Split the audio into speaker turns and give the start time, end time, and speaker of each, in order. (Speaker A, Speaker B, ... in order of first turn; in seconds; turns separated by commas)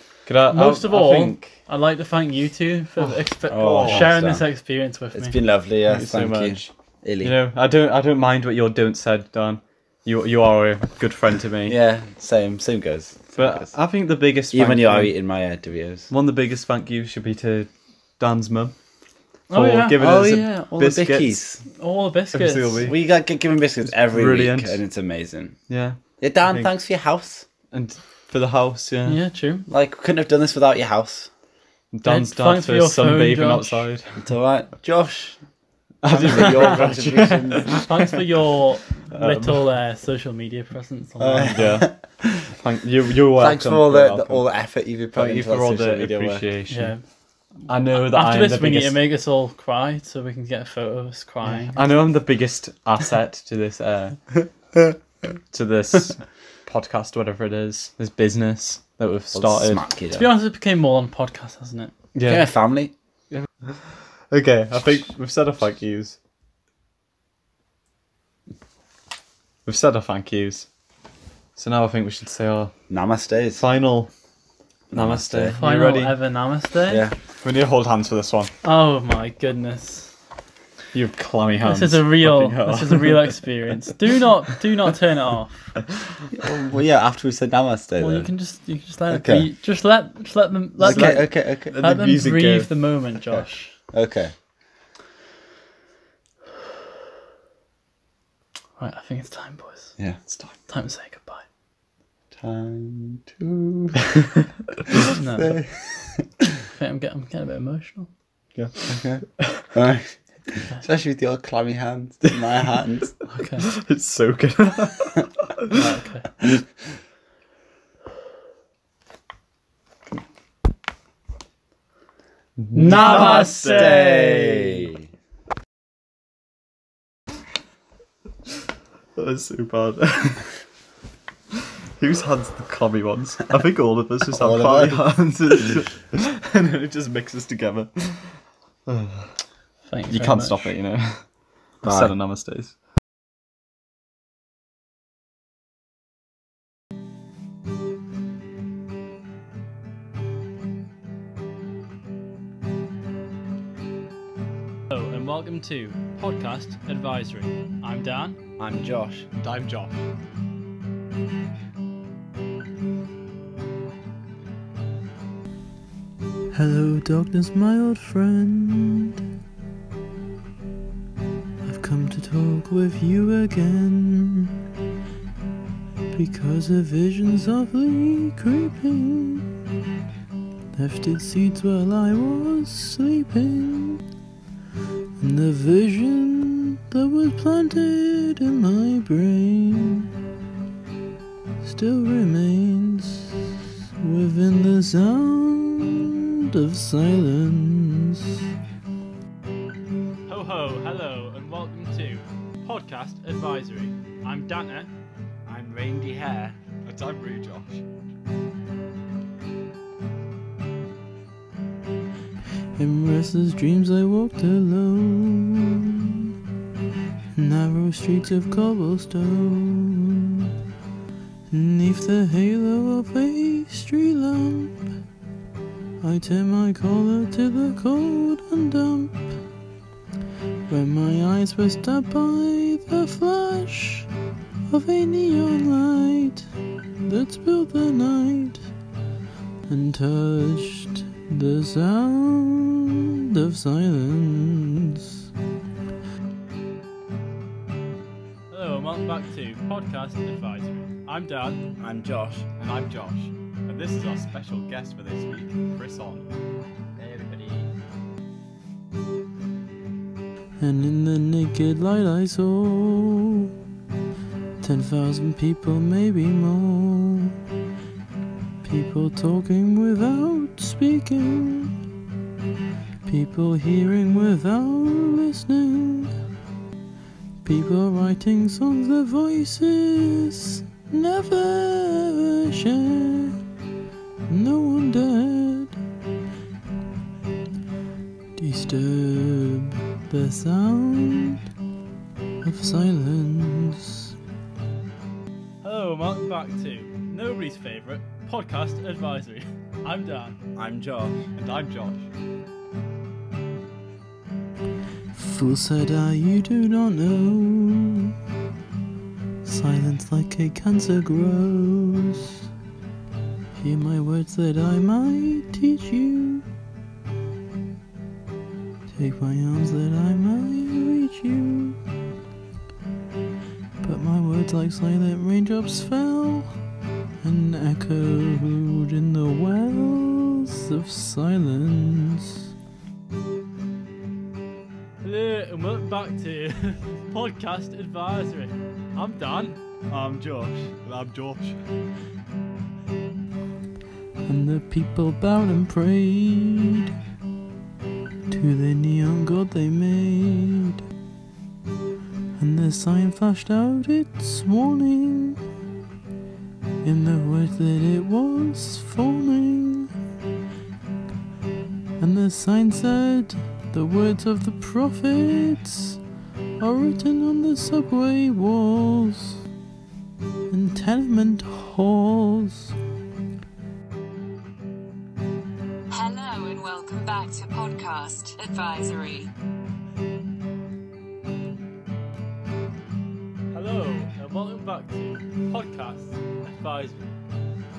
Speaker A: 0.2-1.5, Speaker B: 0.5-5.3, Speaker A: 3.0-4.1, Speaker C: 3.5-4.4, Speaker C: 5.1-7.4, Speaker A: 5.9-6.7, Speaker A: 7.2-11.8, Speaker C: 11.7-13.7, Speaker A: 13.3-15.1, Speaker C: 14.5-16.1, Speaker A: 16.1-18.7, Speaker B: 19.5-19.9, Speaker A: 19.5-21.4, Speaker C: 20.0-21.6, Speaker B: 21.7-22.9, Speaker A: 22.3-22.9, Speaker C: 22.8-25.6, Speaker A: 23.9-24.8, Speaker A: 25.7-26.7, Speaker C: 26.2-27.5, Speaker A: 27.7-29.2, Speaker B: 29.1-29.6, Speaker C: 29.7-31.3, Speaker A: 31.9-34.3, Speaker B: 32.0-33.9, Speaker C: 34.2-35.4, Speaker A: 36.0-37.9, Speaker C: 36.0-37.8, Speaker B: 37.9-41.6, Speaker A: 39.1-39.6, Speaker C: 41.2-42.0, Speaker A: 41.5-44.4, Speaker C: 43.4-46.4, Speaker A: 45.1-46.9, Speaker B: 46.7-47.0, Speaker B: 47.6-51.8, Speaker A: 47.7-49.0, Speaker A: 51.7-54.2, Speaker A: 55.5-59.8, Speaker C: 59.3-60.3, Speaker B: 60.1-61.9, Speaker A: 62.1-62.5, Speaker C: 62.2-62.9, Speaker A: 63.3-66.2, Speaker A: 69.7-70.7, Speaker A: 71.6-72.7, Speaker C: 72.9-73.6, Speaker A: 73.6-74.1, Speaker C: 74.9-75.6, Speaker A: 74.9-76.2, Speaker B: 75.6-77.1, Speaker C: 76.9-77.1, Speaker A: 77.4-78.5, Speaker B: 78.6-80.1, Speaker A: 80.9-83.3, Speaker B: 81.7-85.8, Speaker C: 86.3-88.3, Speaker B: 88.0-93.7, Speaker C: 89.1-89.5, Speaker C: 90.8-91.7, Speaker A: 90.8-92.7, Speaker C: 93.3-94.3, Speaker B: 98.8-100.0, Speaker B: 100.7-101.4, Speaker C: 102.3-104.0, Speaker C: 105.1-106.2, Speaker B: 105.1-105.6, Speaker B: 106.7-108.1, Speaker A: 108.5-108.8, Speaker C: 108.8-113.1, Speaker B: 113.3-113.7, Speaker A: 113.7-115.8, Speaker B: 115.7-116.3, Speaker A: 122.6-124.7, Speaker B: 122.7-124.2, Speaker C: 122.8-125.0, Speaker A: 129.2-130.5, Speaker A: 132.0-139.3, Speaker C: 134.3-135.1, Speaker B: 139.8-140.8, Speaker A: 140.1-141.2, Speaker A: 141.8-142.7, Speaker C: 141.8-142.1, Speaker B: 154.9-158.4, Speaker C: 158.6-159.3, Speaker A: 159.3-160.0, Speaker D: 166.5-169.2, Speaker D: 171.6-174.5, Speaker D: 176.1-179.4, Speaker D: 180.7-184.0, Speaker D: 185.2-190.1, Speaker D: 191.6-193.4, Speaker D: 194.0-198.3, Speaker B: 200.3-204.9, Speaker C: 205.4-206.6, Speaker A: 206.8-207.8, Speaker D: 212.8-216.2, Speaker D: 217.3-220.5, Speaker D: 221.5-224.8, Speaker D: 226.0-229.3, Speaker D: 230.7-234.1, Speaker D: 234.7-236.5, Speaker D: 237.0-238.7, Speaker D: 239.7-245.0, Speaker B: 248.5-251.6, Speaker C: 251.8-252.5, Speaker A: 252.6-256.2, Speaker D: 260.6-263.5, Speaker D: 264.6-267.4, Speaker D: 268.6-271.7, Speaker D: 273.1-276.1, Speaker D: 277.4-283.3, Speaker D: 284.3-285.8, Speaker D: 288.4-291.4, Speaker D: 292.4-294.1, Speaker B: 295.6-300.4, Speaker C: 300.6-301.2, Speaker A: 301.4-302.0, Speaker D: 305.1-308.1, Speaker D: 309.4-312.3, Speaker D: 313.5-316.4, Speaker D: 318.9-321.8, Speaker D: 323.8-326.6, Speaker D: 327.2-332.4, Speaker B: 335.0-339.6, Speaker C: 339.9-340.6, Speaker A: 340.8-341.5, Speaker D: 344.2-346.9, Speaker D: 348.3-350.8, Speaker D: 352.4-355.4, Speaker D: 356.8-359.9, Speaker D: 362.0-366.0, Speaker D: 366.6-369.4, Speaker D: 370.5-372.7, Speaker E: 375.9-379.3, Speaker B: 383.5-387.1